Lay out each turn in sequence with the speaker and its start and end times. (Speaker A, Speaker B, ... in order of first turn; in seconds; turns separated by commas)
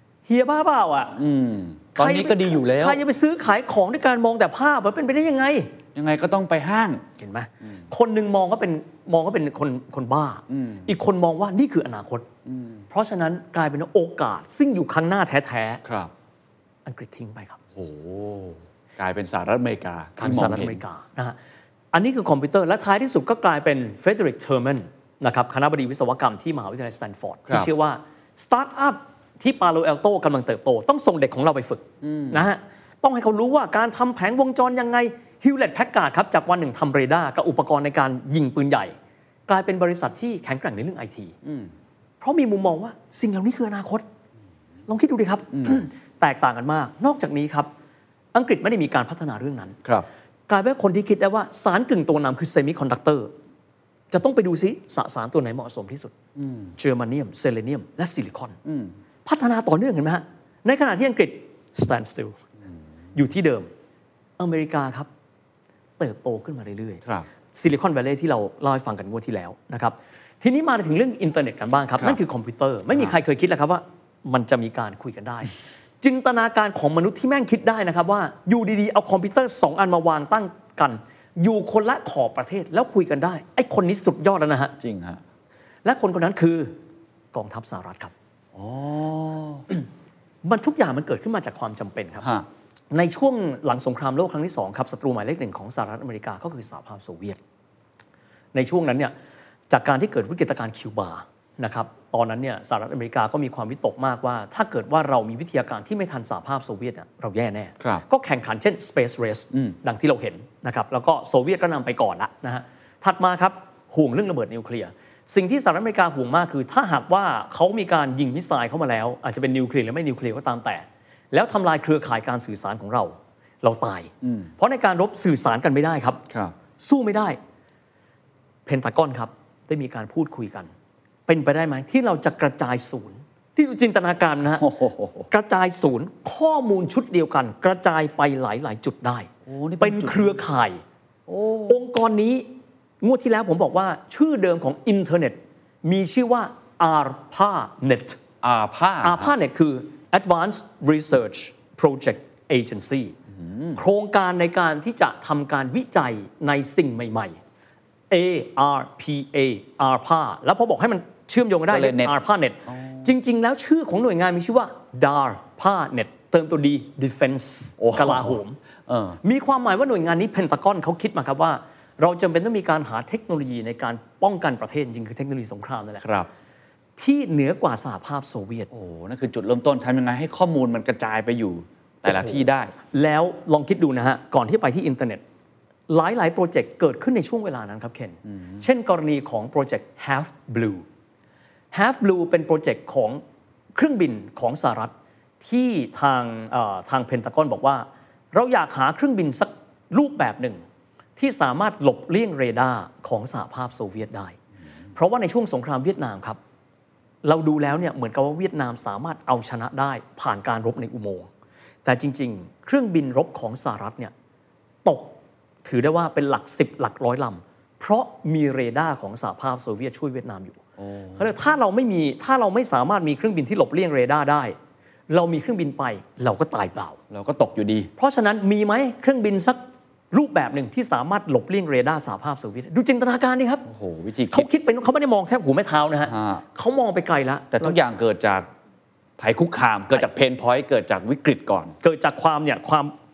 Speaker A: 0.3-1.1, Speaker B: 1.1-3.0, Speaker A: 1.9-5.7, Speaker B: 5.9-7.0, Speaker A: 7.2-12.3, Speaker B: 10.5-10.9, Speaker B: 12.4-12.8, Speaker A: 12.9-15.8, Speaker B: 15.8-16.1, Speaker A: 16.9-17.6, Speaker B: 17.7-20.8, Speaker A: 20.2-21.4, Speaker A: 21.9-38.9, Speaker B: 32.0-32.5, Speaker A: 39.5-41.4, Speaker B: 41.4-41.7, Speaker A: 42.2-44.0, Speaker A: 44.9-47.7, Speaker B: 45.5-45.8, Speaker A: 48.3-49.8, Speaker A: 50.5-53.3, Speaker A: 54.1-56.1, Speaker B: 56.4-56.7, Speaker A: 56.8-58.6, Speaker B: 58.6-58.9, Speaker A: 59.2-62.4, Speaker A: 63.1-63.7, Speaker A: 64.4-65.1, Speaker A: 66.0-84.7, Speaker B: 84.8-85.2, Speaker A: 85.8-86.8, Speaker A: 87.3-88.1, Speaker B: 88.5-89.7, Speaker A: 90.4-92.3, Speaker B: 92.2-92.5, Speaker A: 92.9-97.4, Speaker A: 98.5-99.1, Speaker A: 99.7-126.2, Speaker B: 124.2-124.5, Speaker B: 126.3-126.5, Speaker A: 126.8-127.4, Speaker A: 128.7-130.7, Speaker A: 131.3-134.7, Speaker B: 134.6-135.3, Speaker A: 135.3-140.8, Speaker B: 139.4-140.4, Speaker B: 141.3-141.8, Speaker A: 141.7-142.5, Speaker A: 143.0-148.2, Speaker B: 148.4-149.3, Speaker A: 149.0-153.2, Speaker B: 153.3-153.8, Speaker A: 153.7-157.4, Speaker A: 158.1-168.6, Speaker B: 161.7-162.1, Speaker B: 162.7-163.1, Speaker B: 167.8-169.2, Speaker A: 169.2-176.0, Speaker B: 176.0-176.3, Speaker A: 177.0-178.7, Speaker B: 178.7-182.7, Speaker A: 182.1-185.2, Speaker A: 185.9-190.8, Speaker B: 188.3-188.6, Speaker A: 191.7-193.2, Speaker A: 193.7-200.6, Speaker A: 201.2-204.4, Speaker A: 204.9-206.4, Speaker A: 207.2-211.3, Speaker A: 211.8-214.1, Speaker A: 214.8-220.6, Speaker B: 220.8-221.3, Speaker A: 221.2-224.6, Speaker A: 225.1-227.0, Speaker B: 227.1-227.9, Speaker A: 228.0-229.6, Speaker A: 230.1-233.7, Speaker B: 233.6-234.5, Speaker A: 234.3-237.8, Speaker B: 236.1-236.4, Speaker B: 237.5-238.5, Speaker B: 239.2-241.8, Speaker A: 241.8-242.9